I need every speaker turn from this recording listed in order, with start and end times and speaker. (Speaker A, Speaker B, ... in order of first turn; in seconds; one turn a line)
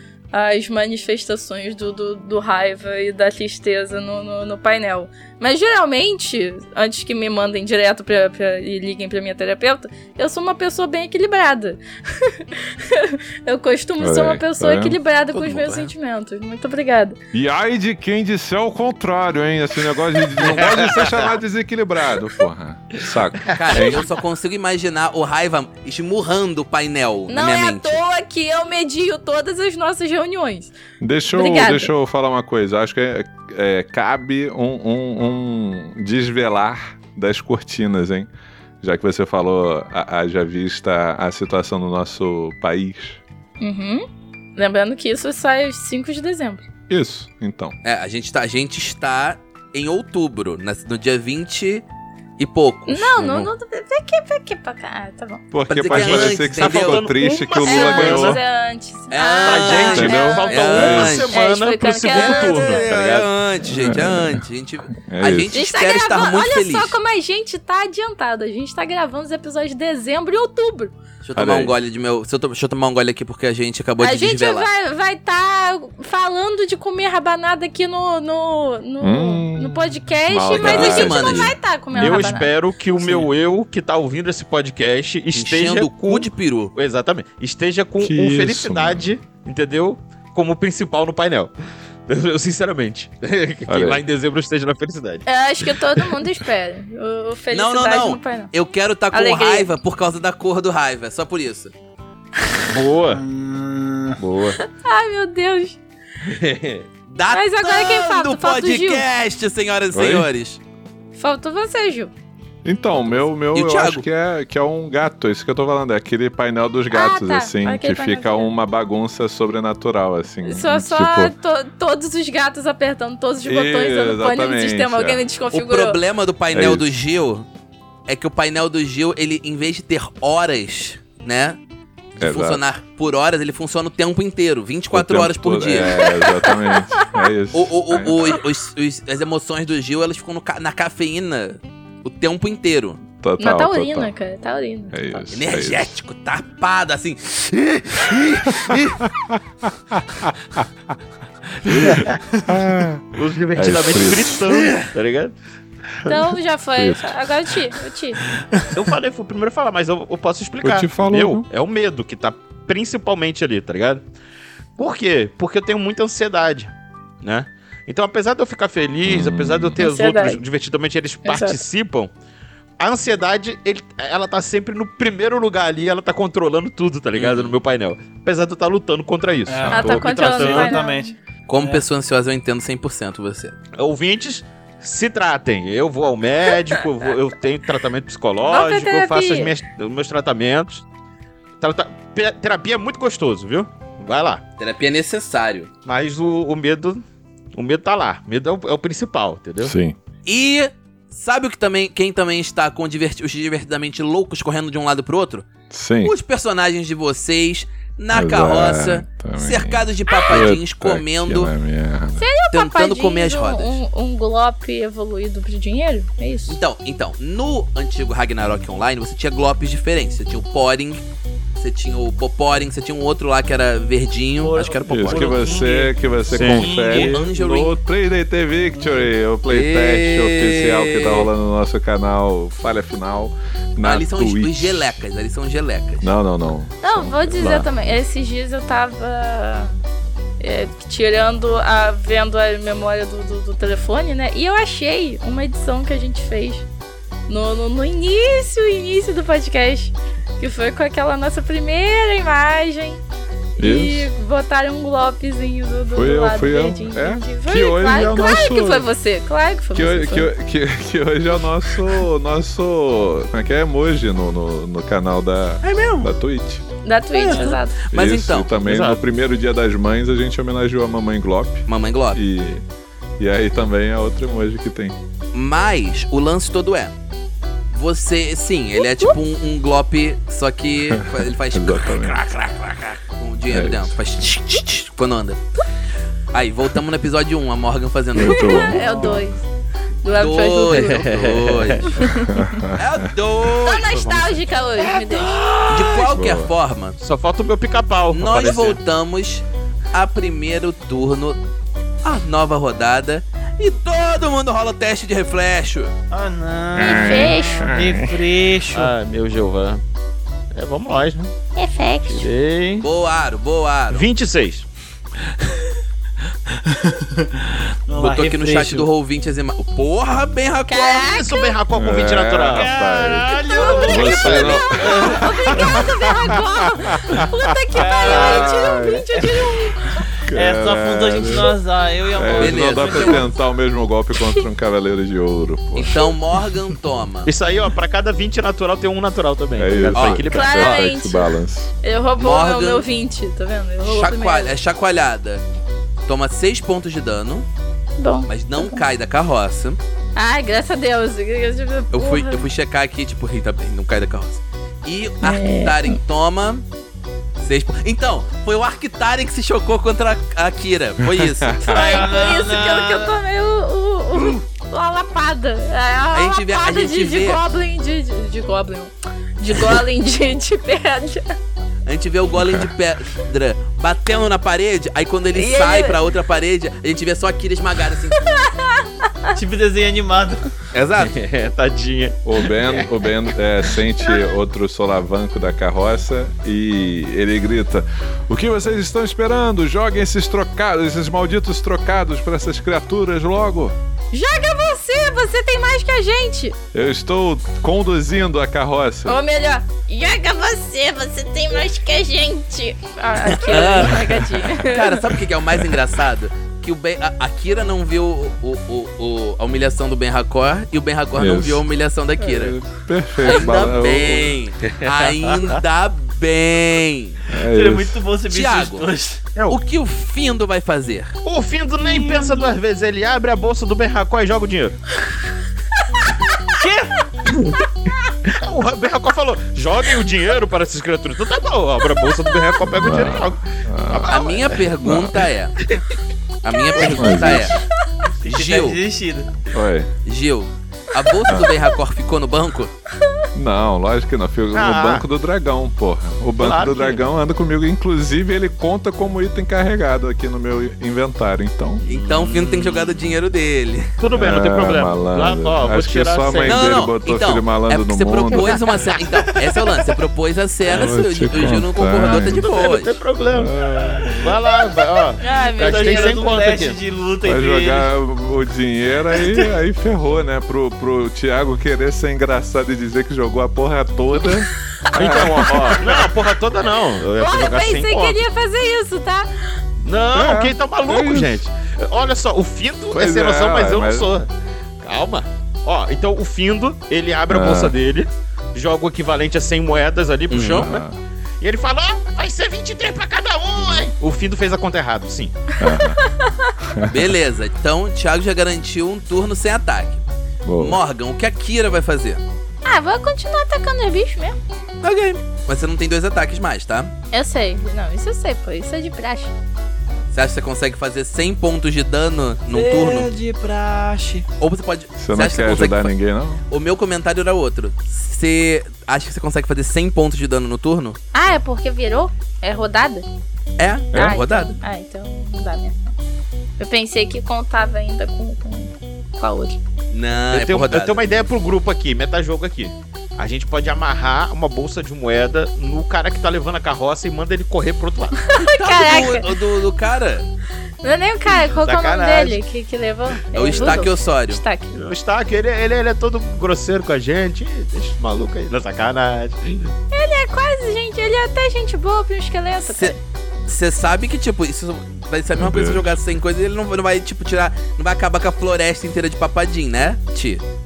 Speaker A: 0.3-17.2
Speaker B: 14.0-15.0
Speaker C: 15.3-15.9
Speaker B: 17.3-24.1
Speaker D: 20.4-21.3
Speaker C: 23.5-28.0
Speaker A: 27.3-30.7
Speaker B: 31.0-38.3
Speaker A: 31.3-31.9
Speaker B: 38.8-43.2
Speaker A: 43.6-46.6
Speaker B: 46.9-47.8
Speaker C: 47.8-51.9
Speaker C: 52.4-53.5
Speaker A: 52.9-55.4
Speaker B: 55.5-58.4
Speaker C: 55.7-57.1
Speaker D: 55.9-58.4
Speaker A: 57.6-62.9
Speaker C: 59.1-61.3
Speaker D: 59.4-63.3
Speaker B: 59.9-61.2
Speaker C: 62.1-67.0
Speaker B: 63.6-65.6
Speaker A: 65.5-70.9
Speaker C: 71.2-74.7
Speaker B: 71.3-71.7
Speaker A: 74.0-82.5
Speaker B: 79.0-82.3
Speaker C: 80.5-81.5
Speaker D: 81.9-91.5
Speaker C: 85.3-86.7
Speaker B: 88.0-89.1
Speaker D: 92.1-95.2
Speaker B: 93.7-94.0
Speaker A: 95.2-98.5
Speaker C: 97.5-101.7
Speaker A: 99.1-99.7
Speaker D: 102.6-103.2
Speaker E: 103.1-104.2
Speaker D: 104.2-104.6
Speaker A: 104.6-105.8
Speaker D: 106.2-106.9
Speaker C: 107.1-110.6
Speaker A: 107.3-109.0
Speaker B: 109.9-110.3
Speaker A: 111.1-112.1
Speaker B: 112.6-121.3
Speaker C: 113.5-114.0
Speaker A: 116.9-118.5
Speaker A: 120.4-126.0
Speaker B: 123.4-125.2
Speaker C: 125.5-127.5
Speaker B: 126.5-126.9
Speaker C: 128.1-131.6
Speaker C: 132.2-136.1
Speaker B: 132.2-132.6
Speaker B: 134.9-138.3
Speaker A: 135.9-137.1
Speaker C: 137.5-143.0
Speaker B: 143.2-144.1
Speaker A: 143.4-145.3
Speaker B: 144.9-145.9
Speaker C: 145.3-147.6
Speaker D: 147.6-149.0
Speaker B: 148.5-150.6
Speaker B: 151.7-154.7
Speaker D: 151.8-152.1
Speaker D: 153.1-155.3
Speaker A: 156.0-158.2
Speaker B: 156.8-157.2
Speaker D: 158.7-164.0
Speaker B: 160.6-161.4
Speaker D: 164.8-172.1
Speaker B: 169.0-169.8
Speaker A: 169.8-170.4
Speaker A: 171.2-171.6
Speaker D: 172.8-180.8
Speaker C: 177.1-177.5
Speaker E: 179.5-181.8
Speaker B: 179.7-180.0
Speaker A: 179.7-181.1
Speaker C: 181.5-183.6
Speaker D: 183.8-190.8
Speaker A: 188.4-189.5
Speaker D: 191.6-194.4
Speaker C: 194.6-195.7
Speaker D: 195.8-199.7
Speaker B: 199.6-200.0
Speaker C: 200.2-205.5
Speaker B: 205.7-206.1
Speaker C: 206.0-211.5
Speaker B: 208.1-212.3
Speaker A: 210.1-210.4
Speaker A: 212.2-216.6
Speaker C: 212.5-213.8
Speaker C: 216.5-221.0
Speaker C: 221.6-225.7
Speaker E: 224.4-227.2
Speaker B: 224.9-235.0
Speaker D: 226.3-226.8
Speaker C: 226.9-227.8
Speaker C: 229.5-231.3
Speaker C: 233.8-236.1
Speaker B: 236.0-238.0
Speaker A: 236.8-239.8
Speaker A: 240.4-246.7
Speaker A: 247.3-253.0
Speaker B: 253.6-254.1
Speaker A: 253.6-260.3
Speaker B: 255.9-258.9
Speaker B: 259.7-266.6
Speaker A: 266.8-267.8
Speaker D: 267.2-267.5
Speaker C: 267.3-268.5
Speaker B: 267.9-272.6
Speaker D: 268.6-269.0
Speaker C: 271.7-272.2
Speaker B: 273.2-274.9
Speaker C: 275.3-276.9
Speaker C: 277.7-282.2
Speaker B: 280.9-282.2
Speaker D: 282.1-283.0
Speaker C: 283.1-285.4
Speaker B: 283.5-283.9
Speaker C: 286.3-288.7
Speaker B: 288.1-289.2
Speaker A: 288.2-289.4
Speaker E: 288.7-289.2
Speaker A: 290.0-291.1
Speaker C: 290.1-291.9
Speaker D: 290.7-291.9
Speaker A: 291.8-292.6
Speaker B: 292.3-292.8
Speaker C: 292.7-293.9
Speaker A: 293.6-295.4
Speaker D: 293.7-296.1
Speaker C: 295.7-297.0
Speaker B: 296.1-296.5
Speaker D: 297.0-298.8
Speaker C: 298.1-301.4
Speaker C: 302.0-305.9
Speaker E: 306.1-308.9
Speaker B: 306.7-308.2
Speaker A: 306.8-307.7
Speaker D: 308.7-309.8
Speaker D: 310.5-311.3
Speaker A: 311.5-312.3
Speaker D: 312.1-312.9
Speaker C: 312.8-314.1
Speaker D: 313.9-314.7
Speaker E: 316.5-318.9
Speaker C: 317.9-321.1
Speaker A: 320.7-321.6
Speaker D: 321.0-323.1
Speaker B: 321.7-327.3
Speaker E: 322.5-325.8
Speaker A: 323.4-330.0
Speaker C: 324.2-324.9
Speaker E: 327.8-328.7
Speaker B: 327.8-329.1
Speaker E: 330.2-333.3
Speaker B: 330.3-331.5
Speaker B: 332.1-336.0
Speaker C: 332.3-333.2
Speaker C: 335.8-337.3
Speaker D: 337.2-340.7
Speaker B: 339.6-341.7
Speaker C: 339.9-340.8
Speaker A: 340.3-341.3
Speaker A: 341.8-344.5
Speaker C: 342.2-342.9
Speaker C: 343.8-345.4
Speaker C: 346.1-347.4
Speaker A: 348.0-348.8
Speaker C: 348.3-349.8
Speaker A: 350.1-352.4
Speaker C: 351.9-356.6
Speaker A: 355.2-356.0
Speaker C: 357.4-361.6
Speaker B: 361.0-361.8
Speaker E: 361.6-363.1
Speaker A: 361.6-371.3
Speaker C: 366.1-367.4
Speaker C: 371.9-378.2
Speaker B: 372.4-372.7
Speaker A: 375.3-376.0
Speaker A: 378.2-379.3
Speaker E: 379.3-380.5
Speaker C: 380.7-381.1
Speaker D: 381.0-382.9
Speaker B: 382.2-393.8
Speaker A: 394.1-396.6
Speaker B: 396.7-399.2
Speaker A: 399.1-405.0
Speaker C: 403.4-412.6
Speaker B: 411.1-411.6
Speaker B: 412.3-414.4
Speaker C: 413.2-417.2
Speaker D: 414.6-415.6
Speaker B: 417.3-418.0
Speaker E: 417.4-419.2
Speaker C: 418.3-418.8
Speaker C: 419.5-421.2
Speaker D: 421.2-424.8
Speaker E: 421.8-422.4
Speaker E: 426.4-427.0
Speaker D: 428.2-434.7
Speaker B: 432.6-435.2
Speaker C: 434.1-435.6
Speaker C: 436.4-437.6
Speaker A: 436.5-437.0
Speaker D: 436.7-437.2
Speaker B: 436.8-437.6
Speaker E: 438.2-439.3
Speaker C: 438.3-438.8
Speaker B: 439.5-439.9
Speaker C: 440.0-442.7
Speaker B: 441.3-441.5
Speaker B: 443.3-451.8
Speaker D: 444.5-445.0
Speaker D: 446.4-447.0
Speaker D: 451.8-453.0
Speaker C: 451.8-453.9
Speaker D: 454.0-456.8
Speaker B: 454.1-458.6
Speaker C: 456.4-463.0
Speaker A: 458.3-458.6
Speaker B: 460.7-462.5
Speaker D: 461.4-463.5
Speaker B: 463.3-464.3
Speaker D: 464.1-466.8
Speaker A: 464.5-466.3
Speaker E: 465.6-467.9
Speaker B: 467.2-476.0
Speaker D: 474.9-478.2
Speaker A: 477.2-479.3
Speaker D: 479.8-490.8
Speaker B: 480.1-481.4
Speaker B: 482.9-484.1
Speaker B: 487.3-487.7
Speaker C: 490.3-490.7
Speaker B: 490.5-491.0
Speaker D: 491.4-495.4
Speaker B: 495.6-496.0
Speaker A: 496.2-496.4
Speaker B: 496.6-497.1
Speaker C: 496.9-500.0
Speaker B: 500.4-500.8
Speaker C: 500.6-502.2
Speaker A: 502.6-504.4
Speaker C: 504.8-506.9
Speaker A: 507.1-509.3
Speaker C: 510.1-513.1
Speaker E: 512.5-514.2
Speaker C: 514.4-515.9
Speaker B: 515.0-516.4
Speaker C: 516.5-521.0
Speaker A: 521.1-523.0
Speaker C: 523.6-524.6
Speaker B: 523.9-524.2
Speaker A: 523.9-525.9
Speaker A: 526.6-529.6
Speaker C: 529.9-531.1
Speaker D: 530.3-538.2
Speaker A: 538.2-539.4
Speaker C: 538.4-540.3
Speaker A: 540.8-544.8
Speaker D: 541.2-542.4
Speaker C: 543.3-544.4
Speaker D: 543.5-543.8
Speaker D: 544.7-549.7
Speaker A: 549.9-553.0
Speaker C: 552.6-552.9
Speaker C: 553.5-560.4
Speaker B: 555.4-556.0